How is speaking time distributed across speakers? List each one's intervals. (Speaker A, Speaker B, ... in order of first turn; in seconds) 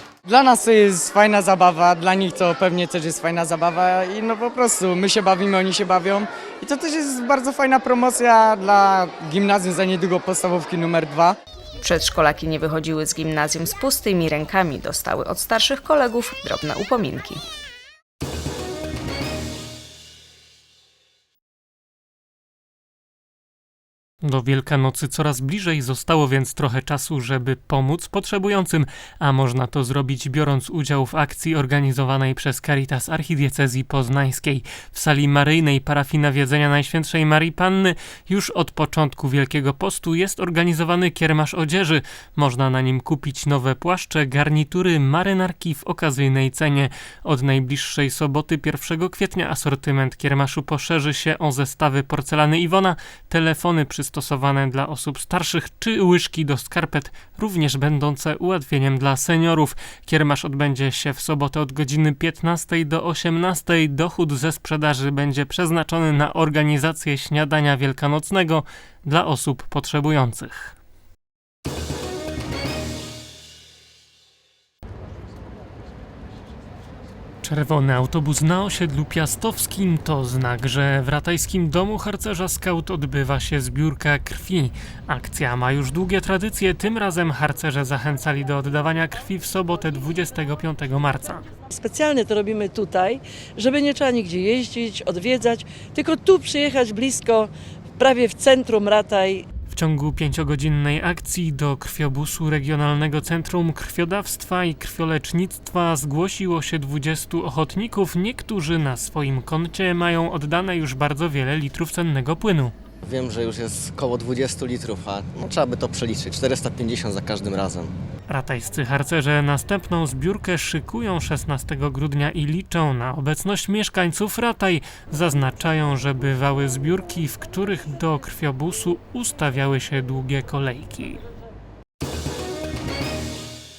Speaker A: 0.2-11.4
Speaker B: 11.8-17.4
Speaker C: 24.2-70.7, 77.4-91.4, 99.7-112.7, 118.3-131.2
Speaker D: 91.7-99.5
Speaker E: 113.0-117.9